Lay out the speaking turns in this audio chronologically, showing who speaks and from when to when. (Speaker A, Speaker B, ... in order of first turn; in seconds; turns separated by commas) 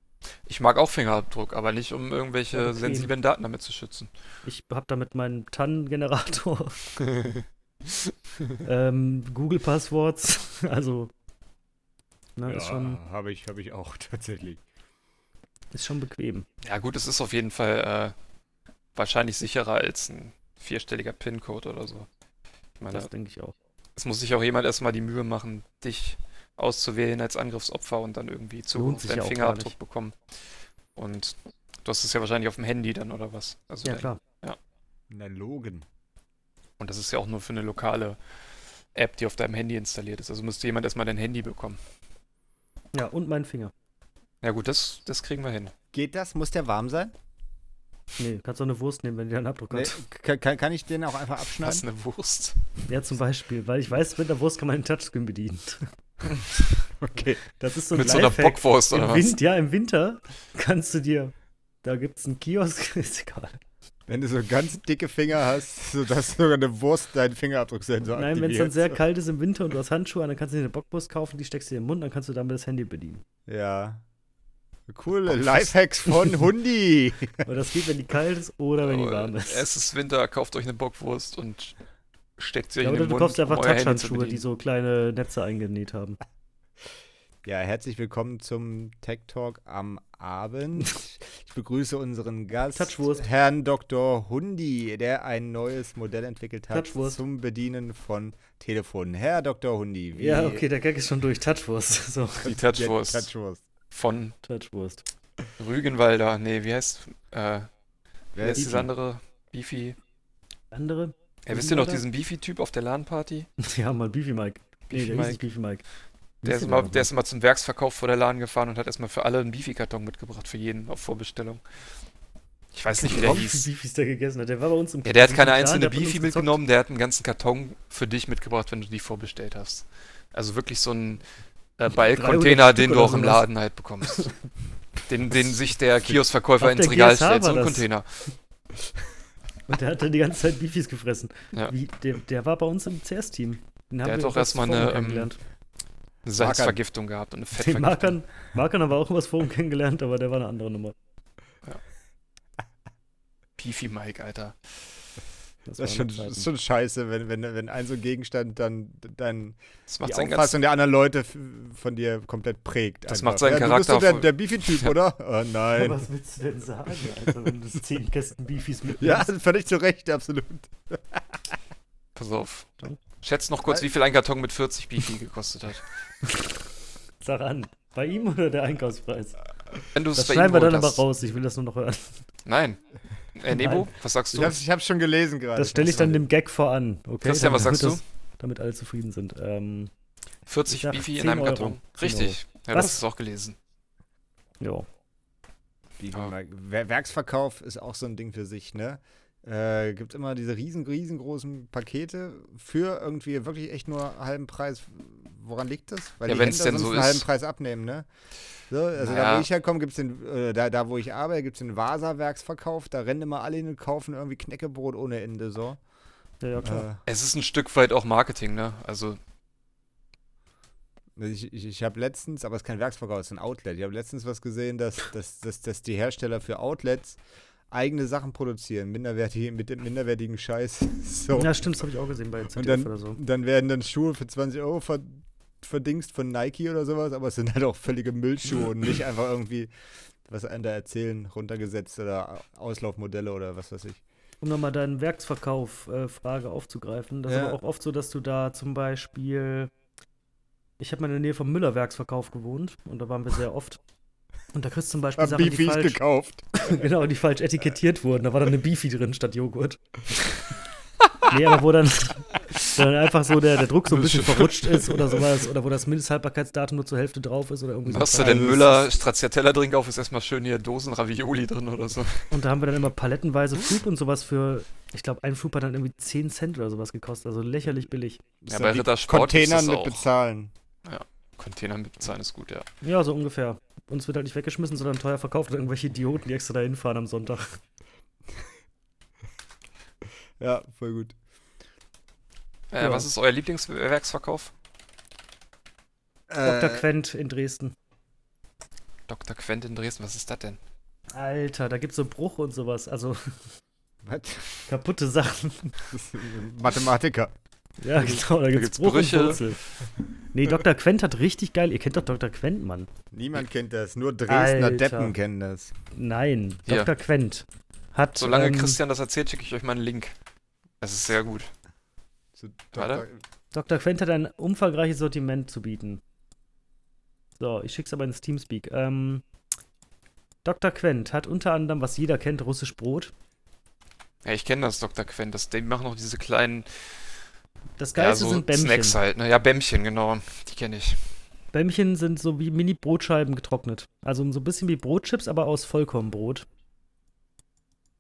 Speaker A: 0.5-4.1, Speaker B: 2.5-3.1, Speaker B: 4.4-6.8, Speaker A: 7.0-7.4, Speaker B: 8.6-11.1, Speaker B: 12.4-13.0, Speaker C: 12.5-14.6, Speaker B: 15.7-16.5, Speaker A: 16.6-18.1, Speaker A: 18.9-22.1, Speaker A: 22.8-23.1, Speaker B: 22.9-23.5, Speaker A: 24.0-30.2, Speaker B: 28.8-29.8, Speaker A: 31.0-34.6, Speaker B: 33.9-34.2, Speaker C: 35.1-35.9, Speaker A: 36.8-38.2, Speaker A: 39.0-41.8, Speaker B: 42.9-43.7, Speaker A: 44.4-45.7, Speaker C: 45.9-47.1, Speaker B: 48.2-50.0, Speaker C: 49.7-51.8, Speaker A: 51.6-52.6, Speaker B: 52.9-55.9, Speaker C: 57.0-57.4, Speaker B: 57.5-63.6, Speaker A: 57.9-59.4, Speaker C: 64.1-69.0, Speaker B: 68.2-73.2, Speaker C: 73.5-74.0, Speaker C: 74.9-77.5, Speaker B: 76.1-76.3, Speaker B: 77.5-79.7, Speaker A: 78.8-81.7, Speaker A: 82.4-84.4, Speaker B: 82.8-86.2, Speaker C: 87.5-100.6, Speaker B: 92.8-93.2, Speaker B: 96.7-97.2, Speaker B: 100.2-102.5, Speaker A: 102.5-103.3, Speaker C: 102.5-103.6, Speaker A: 103.9-104.3, Speaker B: 104.4-105.0, Speaker A: 105.6-107.7, Speaker C: 108.3-108.9, Speaker A: 108.4-110.0, Speaker B: 110.7-112.0, Speaker A: 111.5-113.5, Speaker B: 113.6-115.8, Speaker A: 114.9-115.4, Speaker B: 116.4-117.1, Speaker A: 116.4-121.6, Speaker A: 122.7-123.7, Speaker B: 122.9-126.6, Speaker A: 125.0-131.2, Speaker A: 131.8-134.3, Speaker B: 132.1-133.4, Speaker A: 135.1-138.3, Speaker B: 136.6-137.8, Speaker B: 139.7-145.4, Speaker A: 144.0-145.3, Speaker A: 146.2-148.2, Speaker C: 146.4-146.8, Speaker B: 147.6-150.9, Speaker A: 153.6-154.6, Speaker B: 155.7-156.5, Speaker C: 155.8-166.0, Speaker A: 159.9-160.6, Speaker A: 163.1-164.9, Speaker B: 165.7-169.3, Speaker C: 169.0-171.4, Speaker A: 172.2-175.9, Speaker B: 177.2-179.4, Speaker A: 179.9-181.0, Speaker B: 180.2-182.2, Speaker A: 182.5-182.8, Speaker A: 183.3-184.6, Speaker B: 183.5-184.5, Speaker C: 184.3-186.2, Speaker B: 185.6-189.9, Speaker A: 187.2-188.0, Speaker A: 190.5-193.6, Speaker B: 190.7-193.0, Speaker B: 194.6-194.9, Speaker C: 196.0-208.1, Speaker A: 206.2-207.2, Speaker C: 208.7-215.8, Speaker A: 209.0-209.5, Speaker B: 216.4-216.8, Speaker C: 216.6-217.0, Speaker A: 217.1-219.2, Speaker C: 221.2-227.2, Speaker C: 227.7-231.6, Speaker B: 231.3-233.2, Speaker C: 232.5-239.7, Speaker C: 240.3-244.0, Speaker B: 244.4-249.7, Speaker C: 247.3-247.6, Speaker B: 250.8-253.8, Speaker B: 254.5-256.0, Speaker C: 255.2-256.8, Speaker B: 256.6-260.4, Speaker B: 261.2-268.6, Speaker A: 263.9-264.9, Speaker A: 267.9-272.3, Speaker C: 268.2-268.8, Speaker B: 272.3-278.2, Speaker C: 278.4-280.5, Speaker A: 278.5-280.1, Speaker A: 280.9-282.7, Speaker B: 282.8-287.6, Speaker C: 290.4-291.2, Speaker A: 292.7-294.5, Speaker B: 292.8-293.1, Speaker C: 296.3-296.9, Speaker B: 296.4-297.7, Speaker A: 299.1-300.6, Speaker B: 301.1-303.2, Speaker C: 304.0-304.7, Speaker B: 304.7-305.8, Speaker C: 305.9-307.3, Speaker B: 307.8-309.6, Speaker A: 308.0-309.4, Speaker B: 310.3-312.9, Speaker C: 313.1-315.7, Speaker B: 314.3-315.1, Speaker B: 315.9-318.8, Speaker A: 318.2-320.1, Speaker A: 320.8-321.5, Speaker C: 322.4-323.2, Speaker A: 322.7-323.1, Speaker B: 323.5-326.0, Speaker B: 327.4-329.2, Speaker B: 330.4-333.1, Speaker A: 334.2-336.9, Speaker B: 337.8-339.0, Speaker A: 338.0-341.0, Speaker B: 341.5-346.5